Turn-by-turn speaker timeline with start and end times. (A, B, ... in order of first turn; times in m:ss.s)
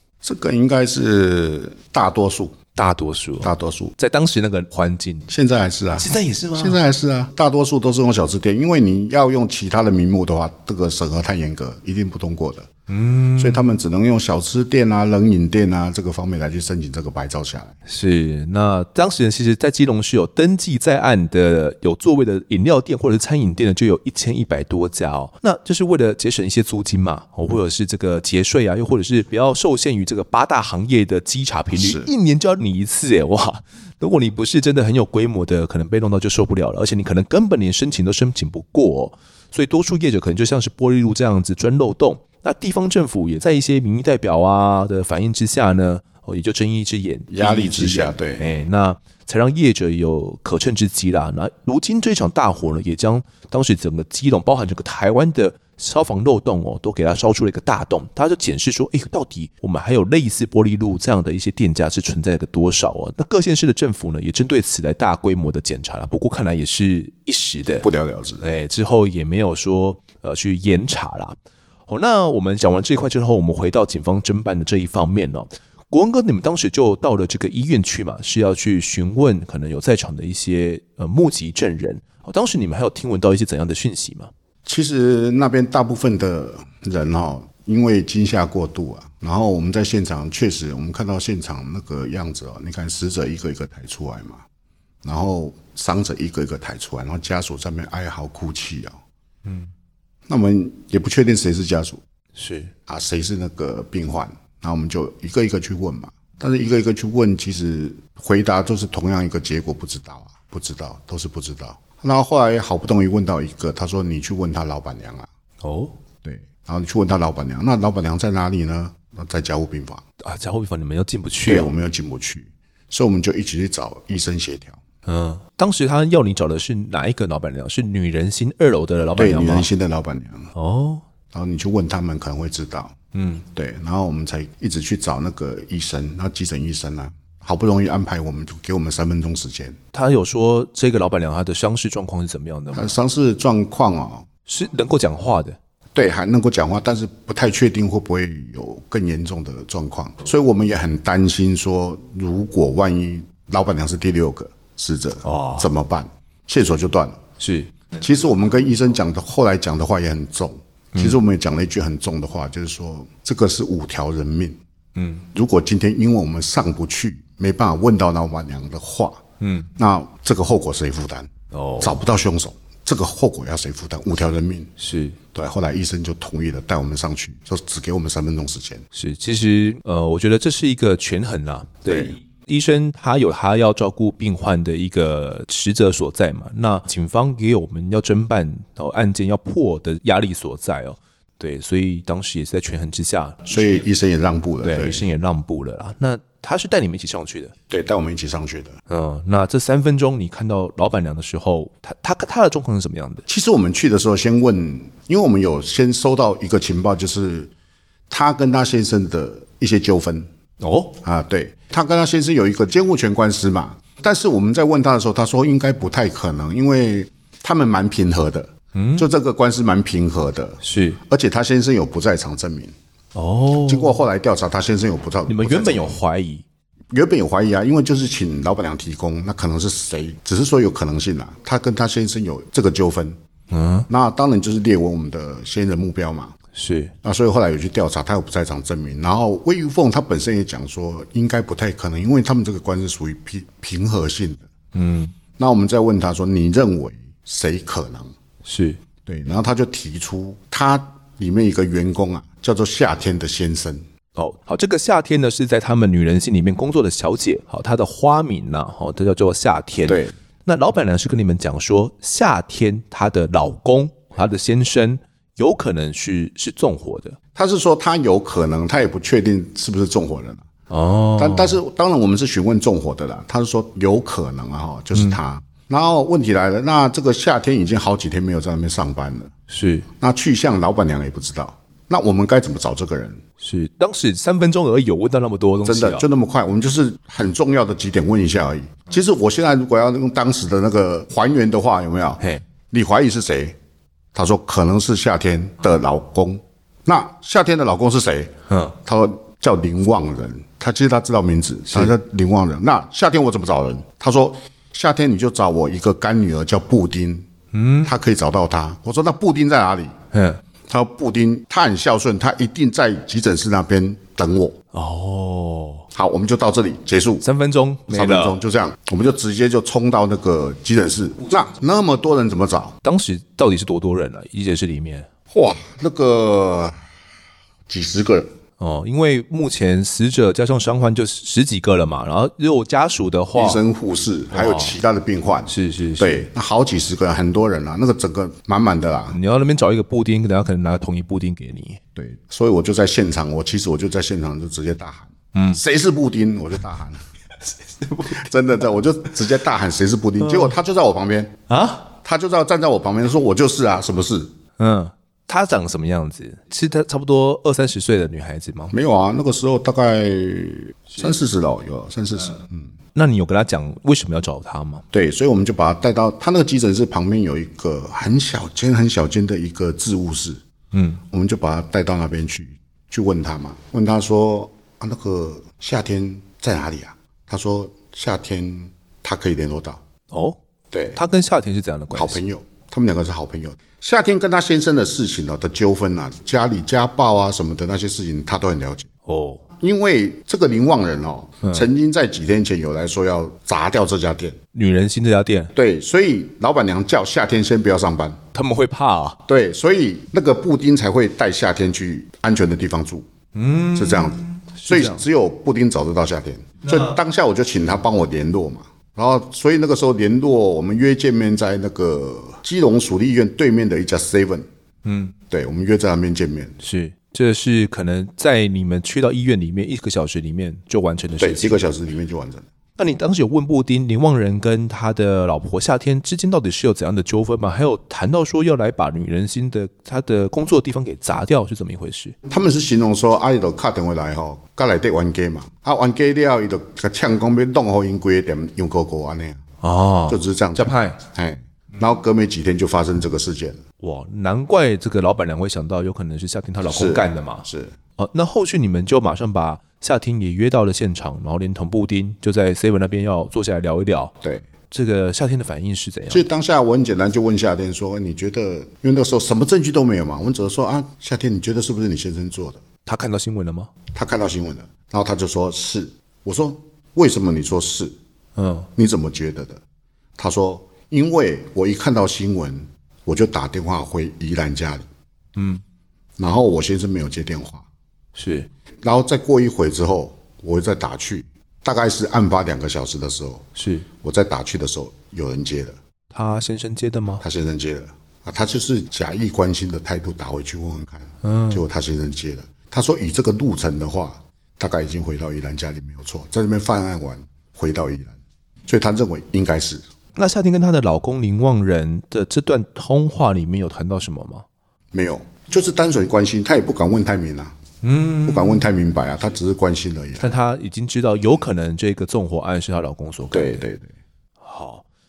0:00.2-0:02.6 A
0:02.7-0:05.3 B
0:03.4-0:03.9 A
0:05.3-0:12.7 A
0:05.9-0:06.8 B
0:12.9-0:13.7 B
0:13.4-0:17.7 A
0:17.8-1:07.8 B
0:31.7-0:32.1 A
0:47.3-0:48.5 A
1:07.8-1:08.4 A
1:08.4-1:11.4 B
1:11.9-1:24.3 B
1:24.6-1:34.4 A
1:35.0-1:39.0 A
1:39.4-1:39.7 B
1:40.3-1:42.0 A
1:42.4-1:42.7 B
1:42.9-1:55.3 A
1:55.6-1:55.9 B
1:56.2-2:00.0 A
2:00.2-2:01.7 B
2:01.4-2:04.8 A
2:05.0-2:09.7 B
2:09.2-2:10.5 A
2:10.5-2:11.0 B
2:11.3-2:19.8 A
2:13.1-2:13.4 B
2:19.9-2:22.9 B
2:22.7-2:24.2 A
2:24.4-2:25.6 B
2:25.9-2:37.2 A
2:35.2-2:35.7 B
2:37.4-2:38.0 B
2:38.0-2:44.6 A
2:45.0-2:45.2 B
2:45.3-2:49.2 A
2:49.4-2:49.7 B
2:49.8-2:51.3 A
2:51.5-2:52.0 B
2:51.8-2:54.7 A
2:54.8-2:55.2 B
2:55.3-2:58.8 A
2:58.9-3:13.8 B
3:01.9-3:02.1 A
3:13.5-3:15.0 A
3:14.6-3:17.5 B
3:17.7-3:18.8 A
3:18.9-3:23.2 B
3:23.3-3:27.5 A
3:28.1-3:30.3 A
3:30.6-3:31.0 B
3:31.0-3:42.7 A
3:38.7-3:39.1 B
3:40.6-3:41.0 B
3:43.1-3:44.0 B
3:43.6-3:46.0 A
3:45.3-3:46.4 B
3:46.9-3:53.2 A
3:53.5-3:53.9 B
3:53.9-3:56.3 A
3:56.5-3:56.9 B
3:57.0-4:04.4 A
4:04.7-4:05.1 B
4:05.4-4:08.1 A
4:08.4-4:08.8 B
4:09.0-4:13.8 A
4:14.2-4:27.2 B
4:19.9-4:20.1 A
4:27.3-4:30.4 A
4:30.7-4:31.6 B
4:31.2-4:39.3 A
4:39.5-4:39.8 B
4:40.0-4:43.2 A
4:43.4-4:46.0 B
4:45.6-4:53.5 A
4:54.1-5:07.3 A
4:58.5-4:58.7 B
5:07.5-5:07.9 B
5:07.8-5:09.9 A
5:10.1-5:10.4 B
5:10.7-5:14.6 A
5:14.7-5:15.8 B
5:15.9-5:17.2 A
5:17.2-5:18.4 B
5:17.9-5:22.8 A
5:22.8-5:25.1 B
5:25.3-5:26.8 A
5:27.7-5:28.3 A
5:28.6-5:33.6 B
5:33.3-5:39.2 A
5:34.3-5:34.8 B
5:35.5-5:36.3 B
5:39.1-5:41.8 B
5:42.0-5:47.0 A
5:45.3-5:45.6 B
5:47.8-5:48.2 B
5:48.1-5:51.4 A
5:50.2-5:50.5 B
5:51.5-5:51.9 B
5:52.0-5:54.3 A
5:54.6-5:58.7 B
5:58.7-6:02.7 A
6:02.9-6:04.8 B
6:04.9-6:10.4 A
6:10.7-6:11.0 B
6:11.1-6:19.8 A
6:20.1-6:20.4 B
6:20.7-6:21.0 A
6:20.9-6:22.2 B
6:21.9-6:28.9 A
6:29.0-6:29.4 B
6:29.6-6:34.4 A
6:34.5-6:35.5 B
6:35.5-6:38.2 A
6:38.3-6:39.2 B
6:39.3-6:43.0 A
6:43.3-6:45.0 B
6:43.7-6:54.4 A
6:46.6-6:47.0 B
6:54.8-6:55.1 B
6:55.3-6:56.6 A
6:56.6-7:01.6 B
7:01.2-7:02.4 A
7:02.8-7:12.1 B
7:12.3-7:19.4 A
7:19.6-7:21.0 B
7:20.1-7:23.6 A
7:23.8-7:27.4 B
7:26.6-7:27.7 A
7:28.0-7:34.1 B
7:34.7-7:36.2 B
7:36.1-7:42.6 A
7:42.8-7:43.7 B
7:43.9-7:47.9 A
7:48.4-7:48.7 B
7:48.8-7:49.6 A
7:50.2-7:54.9 A
7:55.4-7:55.6 B
7:56.2-7:57.6 A
7:58.1-7:58.5 B
7:58.8-8:03.5 A
8:03.6-8:03.8 B
8:04.0-8:05.8 A
8:06.1-8:07.2 B
8:07.2-8:18.1 A
8:11.2-8:11.6 B
8:18.7-8:19.8 A
8:20.2-8:24.4 B
8:24.9-8:27.5 A
8:27.8-8:28.6 B
8:28.2-8:30.3 A
8:30.2-8:33.6 B
8:33.3-8:33.9 A
8:34.4-8:34.8 B